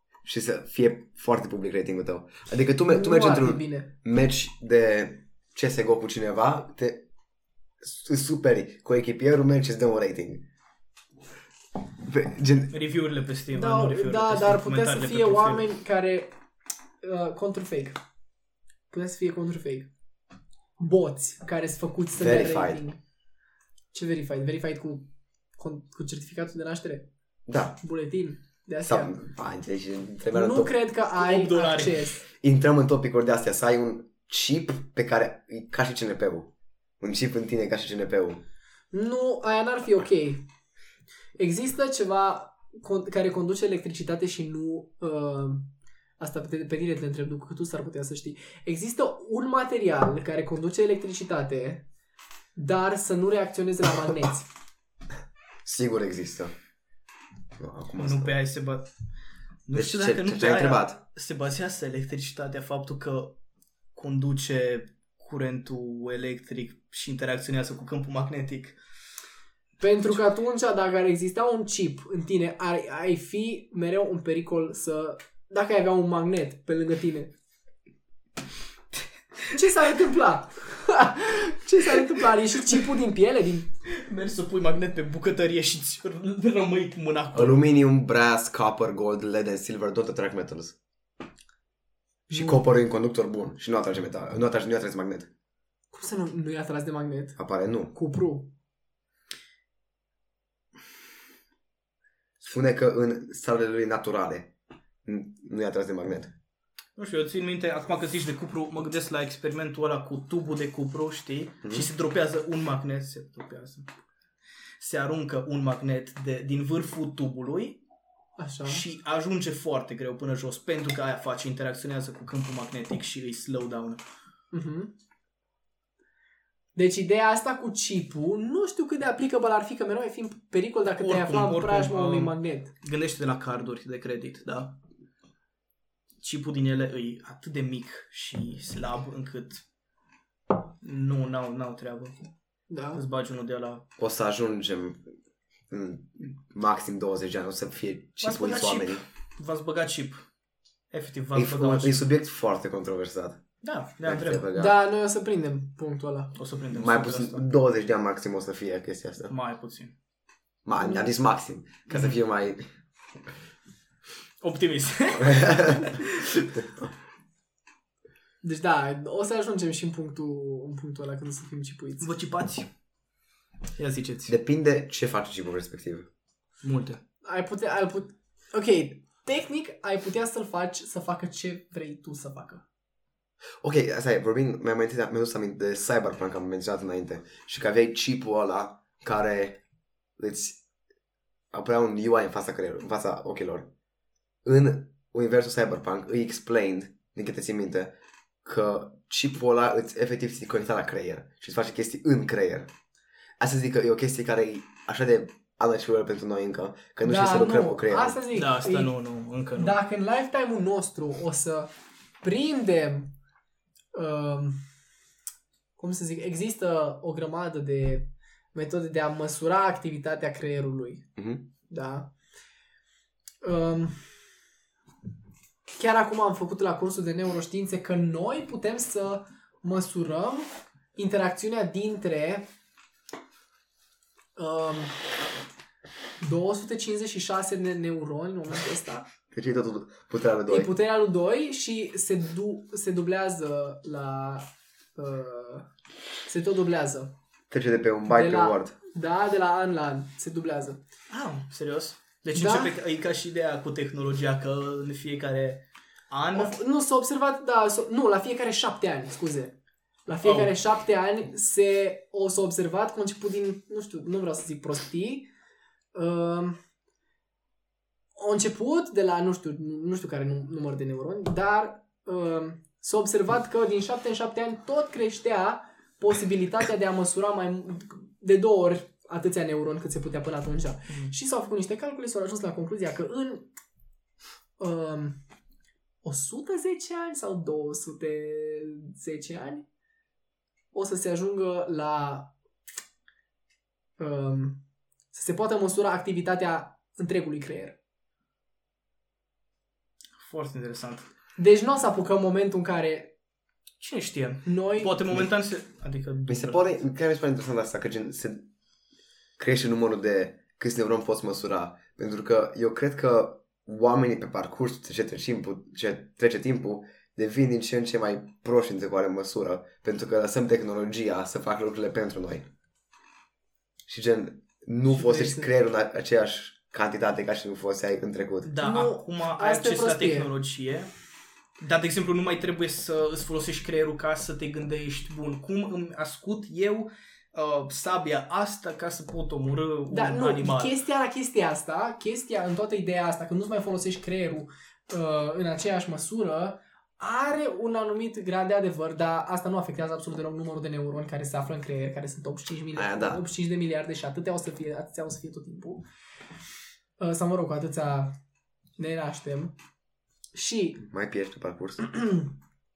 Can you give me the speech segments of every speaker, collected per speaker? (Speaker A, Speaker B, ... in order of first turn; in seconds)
Speaker A: 0.2-7.1, 7.8-10.5, 12.0-12.7, 22.2-22.8, 27.5-27.8, 28.9-30.7, 32.4-38.4, 55.6-56.5, 57.6-58.4, 59.7-61.0, 87.3-90.8, 92.3-95.3, 97.4-97.9, 102.4-104.5, 105.0-106.3, 111.6-111.9, 144.0-145.1, 145.7-149.1, 151.3-153.4, 154.0-154.8, 156.7-159.3, 160.7-162.7, 165.2-166.0, 174.3-176.1, 183.6-189.6, 190.2-190.6, 191.5-193.7, 194.4-202.7, 203.4-208.2, 221.2-221.5, 239.3-240.7, 247.5-248.7, 306.3-308.5, 309.4-322.5, 323.9-328.5, 352.8-353.2, 360.8-361.9
Speaker B: 2.9-3.9, 13.5-16.4, 17.0-18.0, 18.9-19.9, 20.8-23.0, 23.9-27.1, 27.8-29.1, 30.3-32.2, 38.9-40.5, 41.4-51.9, 52.6-54.5, 69.8-77.3, 79.5-83.7, 92.3-92.6, 95.9-97.4, 97.9-98.5, 118.4-118.8, 124.5-124.9, 126.8-132.7, 142.7-143.0, 154.6-156.3, 160.8-161.1, 168.4-172.1, 177.2-182.6, 207.0-208.9, 209.6-211.7, 212.2-213.1, 213.9-214.6, 215.8-221.0, 221.7-222.1, 223.4-224.0, 225.7-232.5, 234.4-235.0, 236.2-239.1, 240.5-245.7, 246.3-247.1, 248.1-250.8, 252.3-252.8, 256.3-259.6, 260.1-265.3, 265.9-266.6, 268.2-283.5, 284.6-285.2, 286.0-289.7, 290.7-292.3, 294.0-294.6, 295.1-297.8, 301.4-303.1, 304.5-305.0, 324.9-325.5, 328.6-330.3, 339.9-355.8, 357.0-358.2, 358.8-359.5, 360.3-360.8, 362.0-362.3
Speaker C: 12.7-15.7, 31.2-32.1, 58.0-58.9, 59.7-63.4, 64.0-68.8, 83.9-87.6, 107.0-113.9, 114.8-117.8, 118.7-124.0, 131.0-134.8, 136.2-139.6, 140.8-142.2, 142.9-143.8, 148.2-150.2, 150.9-152.0, 153.6-154.5, 156.3-157.5, 159.3-159.9, 161.9-162.2, 164.4-166.5, 172.0-172.7, 173.8-174.3, 176.6-177.0, 208.3-209.8, 251.1-256.6, 260.2-260.5, 300.2-301.1, 303.8-306.8, 328.4-330.9, 331.6-340.8